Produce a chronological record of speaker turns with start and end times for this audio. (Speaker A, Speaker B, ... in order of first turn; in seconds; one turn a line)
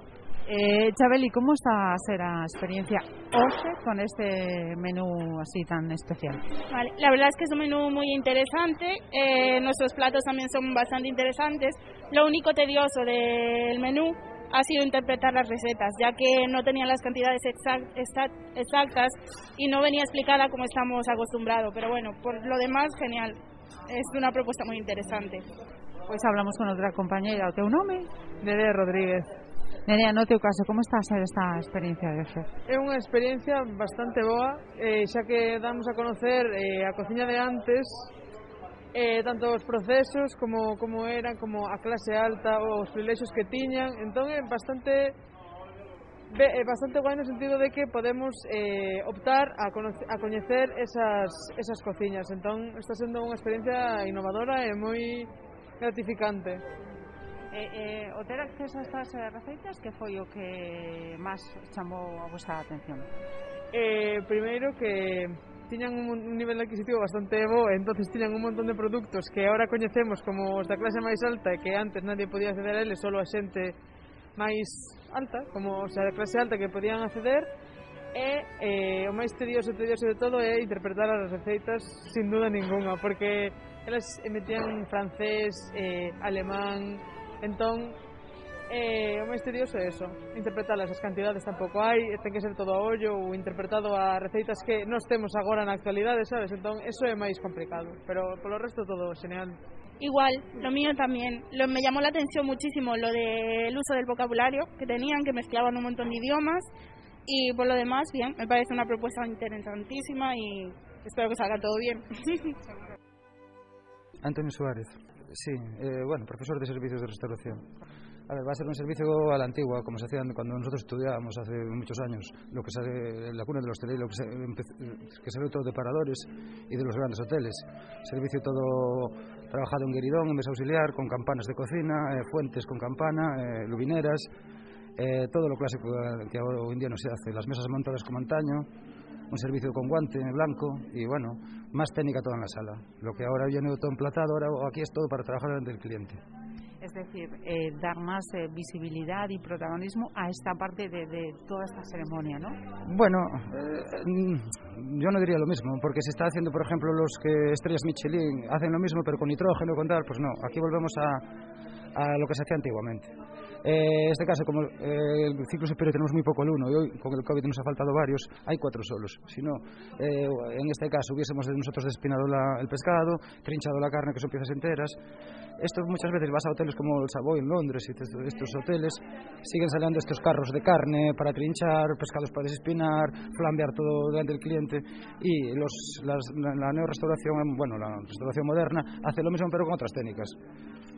Speaker A: 0.5-6.4
Speaker B: 6.7-23.4
Speaker B: 23.9-25.4
Speaker A: 26.1-28.1
Speaker C: 28.4-29.3
Speaker A: 29.9-32.5
Speaker C: 32.7-38.1
Speaker C: 38.9-45.1
Speaker C: 46.3-55.3
Speaker C: 55.8-56.6
Speaker A: 57.5-63.1
Speaker C: 63.7-73.8
Speaker C: 74.3-77.5
Speaker C: 78.1-88.0
Speaker C: 88.7-99.6
Speaker B: 100.0-106.7
Speaker B: 107.2-112.5
Speaker D: 114.2-117.7
Speaker D: 118.3-134.3
Speaker D: 135.0-138.7
Speaker D: 139.3-146.2
Speaker A: 146.8-152.6
Speaker D: 152.8-161.3
Speaker D: 161.9-163.1
Speaker D: 163.6-175.0
Speaker D: 175.6-190.3